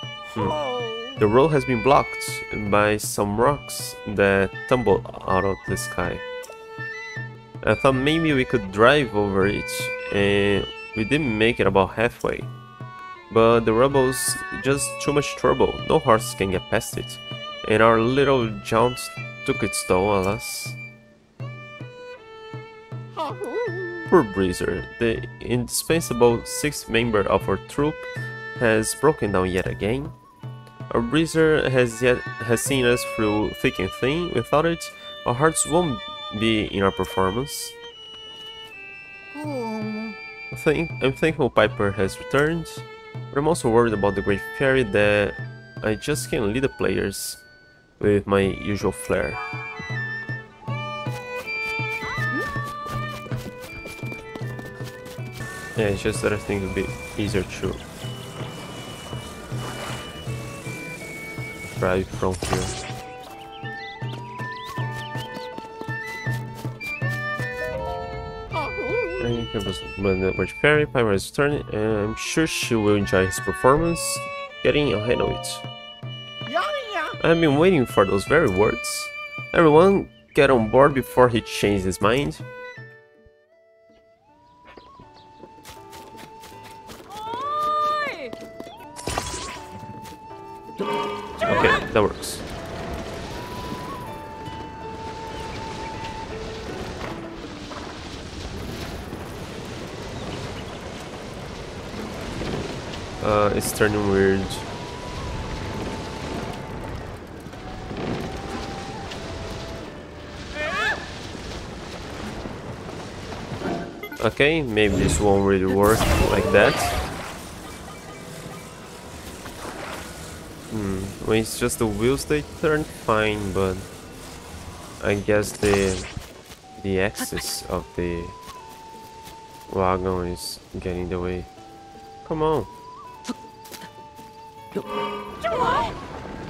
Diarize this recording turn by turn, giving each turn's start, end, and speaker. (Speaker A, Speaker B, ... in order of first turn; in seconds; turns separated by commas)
Speaker A: 0.4-1.2, Speaker B: 1.2-6.2, Speaker B: 7.6-12.5, Speaker B: 13.3-20.8, Speaker A: 23.1-24.1, Speaker B: 24.1-30.1, Speaker B: 30.9-37.8, Speaker A: 39.4-40.1, Speaker B: 40.5-47.4, Speaker B: 48.0-49.4, Speaker B: 55.8-57.8, Speaker B: 61.8-62.8, Speaker A: 68.5-69.5, Speaker B: 69.2-75.7, Speaker A: 76.5-77.2, Speaker B: 77.2-82.5, Speaker A: 87.1-88.3, Speaker B: 91.4-92.5, Speaker B: 103.2-104.7, Speaker B: 114.2-117.0, Speaker B: 120.7-123.9, Speaker B: 125.0-126.1, Speaker B: 126.8-128.4, Speaker B: 129.7-131.5, Speaker B: 132.2-132.7, Speaker A: 135.5-135.9